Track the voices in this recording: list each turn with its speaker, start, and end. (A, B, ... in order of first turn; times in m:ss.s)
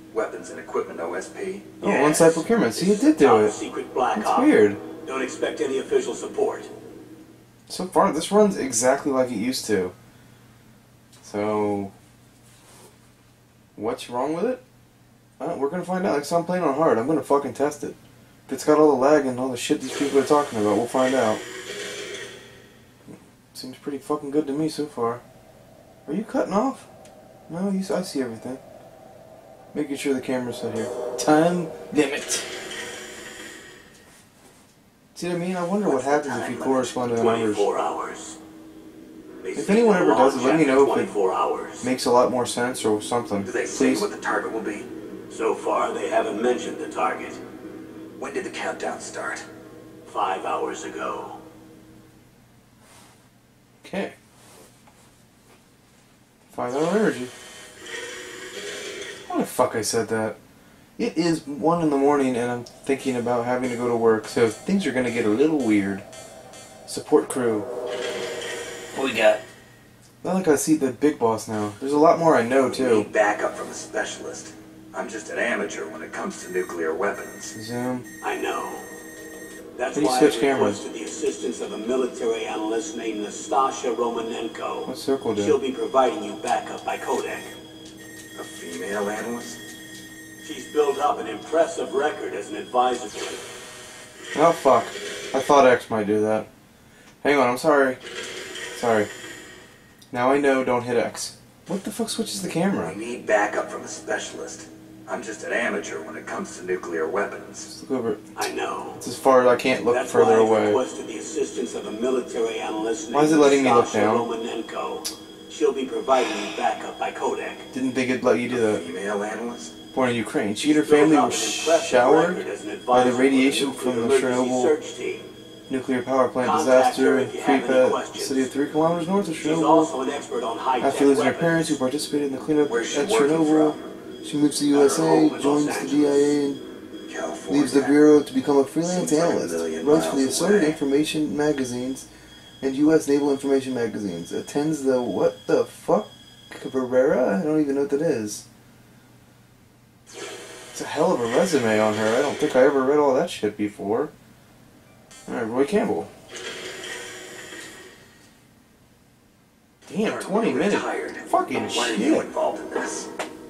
0:00.1-0:01.8 A
0:01.8-0:03.5 B
0:01.8-0:06.7 C
0:04.1-0:04.8 B
0:07.7-0:09.9 B
0:11.2-0:11.9 B
0:13.8-0:14.6 B
0:15.4-0:18.0 B
0:18.5-0:21.4 B
0:23.5-0:25.2 B
0:26.0-0:26.9 B
0:27.5-0:28.6 B
0:29.7-0:32.5 B
0:35.1-0:37.7 B
0:35.8-0:37.0 A
0:37.1-0:38.4 C
0:39.4-0:41.9 C
0:39.6-0:41.1 B
0:41.8-0:44.1 B
0:43.4-0:44.8 A
0:45.3-0:47.4 C
0:48.2-0:49.4 A
0:50.0-0:51.4 C
0:53.8-0:54.1 B
0:56.5-0:57.3 B
0:59.3-1:00.4 B
1:01.0-1:06.0 B
1:06.9-1:07.7 B
1:08.9-1:09.4 B
1:10.2-1:13.1 B
1:12.6-1:17.6 A
1:17.5-1:18.0 B
1:18.2-1:18.8 C
1:19.8-1:27.5 C
1:20.0-1:20.8 B
1:24.9-1:25.6 B
1:28.3-1:29.6 A
1:30.4-1:33.4 C
1:34.3-1:36.5 B
1:37.2-1:38.0 B
1:38.7-1:39.1 B
1:40.1-1:43.0 B
1:42.8-1:47.7 A
1:47.7-1:48.2 B
1:48.4-1:49.0 C
1:49.0-1:50.8 B
1:49.9-1:57.7 C
1:53.1-1:54.3 B
1:57.7-1:58.8 B
1:58.5-1:59.8 A
1:59.9-2:04.7 B
2:00.6-2:05.2 C
2:05.7-2:09.9 B
2:06.4-2:08.5 C
2:09.4-2:11.8 C
2:10.8-2:16.6 B
2:12.6-2:13.8 A
2:14.7-2:16.4 C
2:17.1-2:18.0 A
2:17.5-2:22.0 B
2:18.8-2:20.8 A
2:22.6-2:28.4 B
2:30.7-2:34.1 B
2:35.3-2:36.1 B
2:39.9-2:42.3 B
2:39.9-2:43.1 A